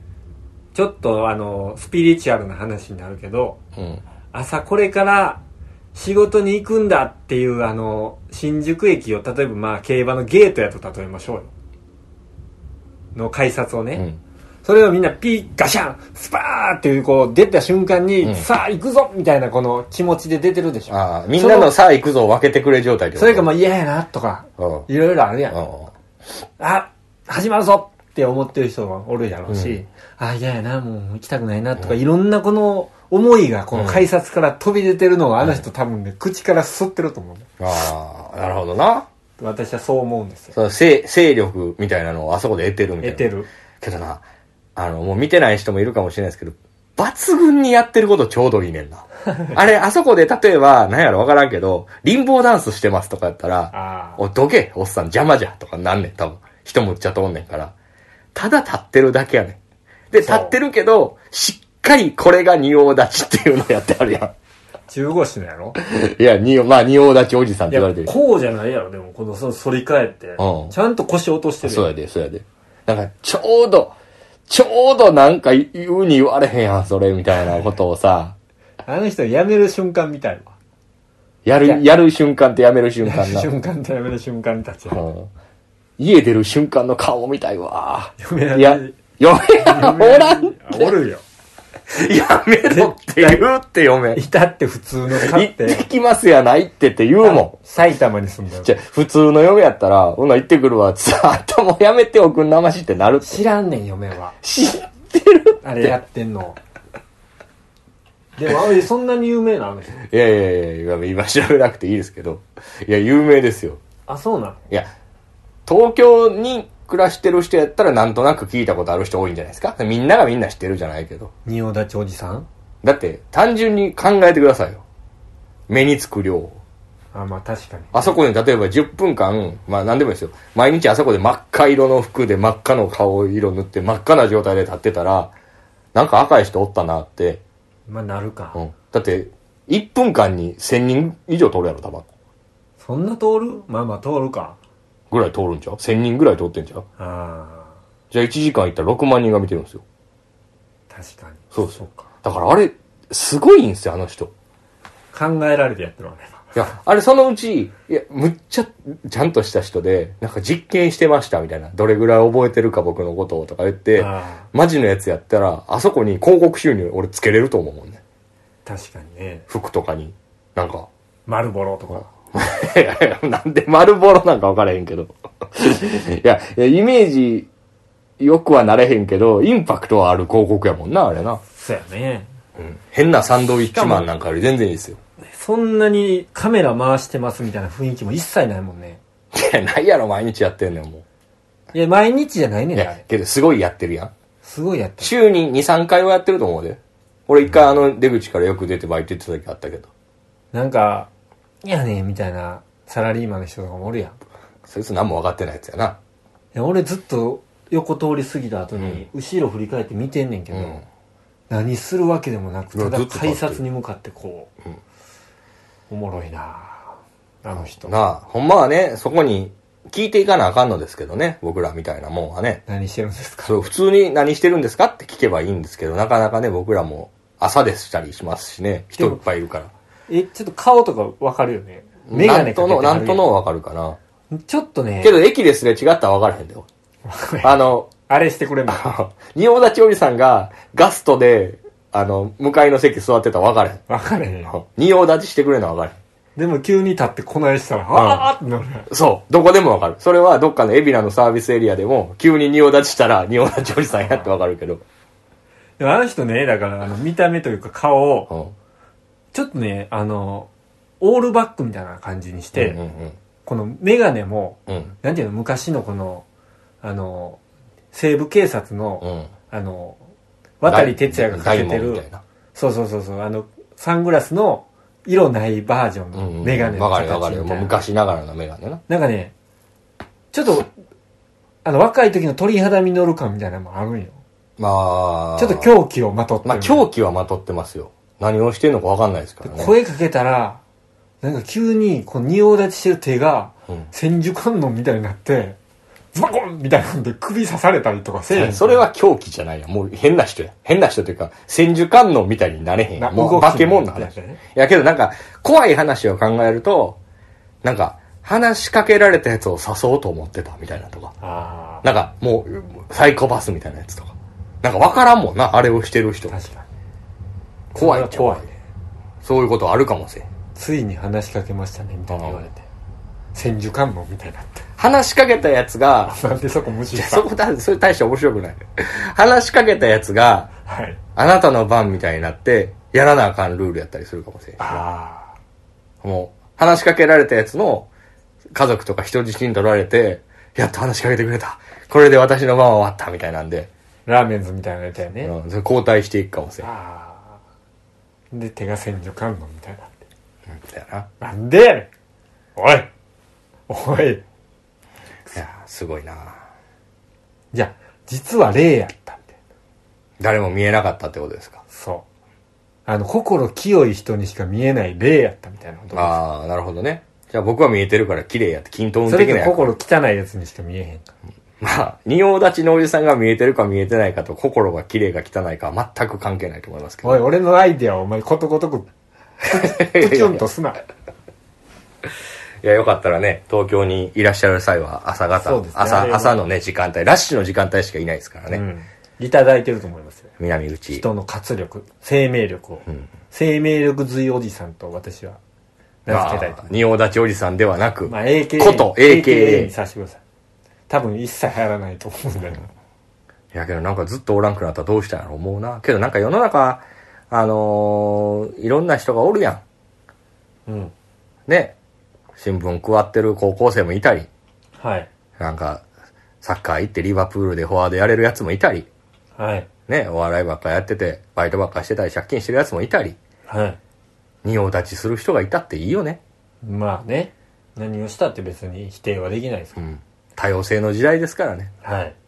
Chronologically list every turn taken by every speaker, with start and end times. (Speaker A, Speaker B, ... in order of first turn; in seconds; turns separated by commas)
Speaker A: 0.7-3.6, Speaker B: 3.8-4.0, Speaker A: 4.3-5.4, Speaker A: 5.9-11.5, Speaker A: 13.2-14.1, Speaker A: 14.6-21.7, Speaker B: 20.9-23.5, Speaker A: 23.2-25.6, Speaker B: 24.6-24.9, Speaker B: 25.5-25.9, Speaker A: 26.6-37.5, Speaker B: 29.5-29.8, Speaker B: 33.7-34.1, Speaker B: 37.6-39.1, Speaker A: 39.4-40.6, Speaker B: 40.5-43.3, Speaker A: 43.0-43.5, Speaker B: 43.8-44.2, Speaker B: 44.8-57.7, Speaker A: 49.3-49.6, Speaker A: 53.7-54.2, Speaker B: 58.3-59.6, Speaker B: 60.1-64.3, Speaker A: 60.2-60.6, Speaker A: 64.9-65.8, Speaker B: 65.8-68.1, Speaker A: 67.7-71.9, Speaker B: 70.4-70.7, Speaker B: 71.6-74.0, Speaker B: 74.5-78.4, Speaker A: 78.8-80.5, Speaker B: 81.5-83.5, Speaker A: 83.0-85.0, Speaker B: 84.9-85.3, Speaker B: 86.0-91.0, Speaker A: 88.2-89.0, Speaker A: 89.5-91.2, Speaker B: 91.9-94.2, Speaker A: 92.7-93.5, Speaker A: 94.1-95.8, Speaker B: 95.2-97.5, Speaker A: 97.2-98.8, Speaker B: 98.6-103.4, Speaker A: 103.2-104.4, Speaker B: 104.4-106.0, Speaker A: 105.6-106.6, Speaker A: 108.4-110.0, Speaker B: 110.0-113.8, Speaker A: 114.1-114.6, Speaker B: 115.7-121.3, Speaker A: 121.5-122.5, Speaker B: 122.8-124.8, Speaker B: 125.7-126.6, Speaker A: 127.1-128.2, Speaker B: 127.9-135.3, Speaker B: 135.9-137.4, Speaker A: 137.9-138.6, Speaker B: 138.6-142.1, Speaker A: 142.8-144.6, Speaker B: 145.1-146.9, Speaker A: 147.0-147.8, Speaker B: 148.1-149.8, Speaker A: 150.9-152.1, Speaker B: 151.5-154.3, Speaker A: 155.1-156.6, Speaker B: 156.6-168.0, Speaker A: 164.0-164.5, Speaker A: 168.7-169.4, Speaker B: 169.5-170.9, Speaker A: 171.3-172.1, Speaker B: 172.3-177.5, Speaker B: 178.2-181.4, Speaker A: 181.5-182.3, Speaker B: 182.6-185.0, Speaker A: 183.7-184.1, Speaker A: 185.3-189.0, Speaker B: 189.3-191.0, Speaker A: 191.7-193.0, Speaker B: 192.8-194.1, Speaker A: 194.4-195.1, Speaker B: 195.0-199.9, Speaker A: 200.5-201.1, Speaker A: 201.6-204.2, Speaker B: 204.7-206.0, Speaker A: 206.5-210.8, Speaker B: 208.8-209.0, Speaker B: 210.5-210.8, Speaker A: 211.5-214.5, Speaker B: 212.8-213.6, Speaker A: 215.9-217.9, Speaker B: 217.6-222.6, Speaker A: 222.7-223.7, Speaker B: 223.4-229.7, Speaker A: 230.1-233.3, Speaker B: 232.1-234.0, Speaker A: 234.3-235.2, Speaker B: 235.0-236.7, Speaker A: 237.1-238.9, Speaker B: 237.4-237.9, Speaker B: 238.7-243.8, Speaker A: 243.9-244.5, Speaker B: 244.5-246.0, Speaker A: 246.4-248.9, Speaker B: 247.9-248.3, Speaker B: 248.9-254.8, Speaker A: 255.8-258.3, Speaker B: 258.3-258.5, Speaker A: 259.3-260.5, Speaker A: 261.0-262.8, Speaker B: 262.5-263.2, Speaker A: 263.4-266.3, Speaker B: 264.7-264.9, Speaker A: 266.8-267.4, Speaker A: 267.9-270.0, Speaker B: 269.0-269.3, Speaker A: 270.6-277.8, Speaker B: 270.7-272.2, Speaker B: 276.1-278.8, Speaker A: 278.9-279.3, Speaker A: 280.3-280.7, Speaker A: 281.6-284.2, Speaker B: 284.6-285.7, Speaker A: 285.4-286.9, Speaker B: 286.4-289.7, Speaker A: 289.4-290.6, Speaker A: 291.2-295.6, Speaker A: 296.1-298.8, Speaker B: 298.3-307.0, Speaker A: 303.0-304.4, Speaker B: 307.6-311.1, Speaker A: 311.2-311.9, Speaker B: 311.8-316.4, Speaker A: 316.3-316.7, Speaker B: 317.7-318.5, Speaker A: 317.8-318.5, Speaker B: 319.2-320.3, Speaker A: 320.6-322.6, Speaker B: 322.1-322.4, Speaker A: 323.3-324.7, Speaker B: 324.8-326.1, Speaker A: 326.1-327.3, Speaker B: 326.9-330.5, Speaker A: 330.7-331.0, Speaker B: 331.1-334.8, Speaker A: 334.6-335.3, Speaker B: 336.0-337.9, Speaker B: 338.5-343.7, Speaker A: 344.1-345.3, Speaker B: 345.2-346.7, Speaker A: 346.6-347.4, Speaker A: 348.3-350.0, Speaker B: 350.5-351.1, Speaker A: 351.2-351.9, Speaker A: 352.6-352.9, Speaker A: 353.7-354.2, Speaker B: 355.3-356.4, Speaker A: 357.5-359.4, Speaker B: 360.2-361.6, Speaker A: 361.7-362.1, Speaker A: 362.9-366.2, Speaker B: 365.9-369.7, Speaker A: 369.1-371.1, Speaker B: 371.6-377.2, Speaker A: 377.0-378.9, Speaker A: 379.4-380.8, Speaker B: 379.5-380.4, Speaker B: 382.6-388.6, Speaker A: 385.4-386.4, Speaker A: 388.5-390.3, Speaker B: 390.4-391.0, Speaker A: 390.9-395.4, Speaker A: 396.1-396.7, Speaker B: 396.1-399.7, Speaker A: 398.1-400.2, Speaker A: 400.9-402.7, Speaker B: 403.5-409.6, Speaker A: 410.7-410.9, Speaker B: 411.5-411.8, Speaker B: 412.4-414.3, Speaker A: 414.8-415.1, Speaker B: 415.4-415.8, Speaker B: 416.4-418.9, Speaker A: 419.4-419.7, Speaker B: 419.9-423.2, Speaker A: 423.5-423.8, Speaker B: 424.4-426.2, Speaker A: 426.6-429.8, Speaker B: 429.8-431.7, Speaker A: 431.8-432.1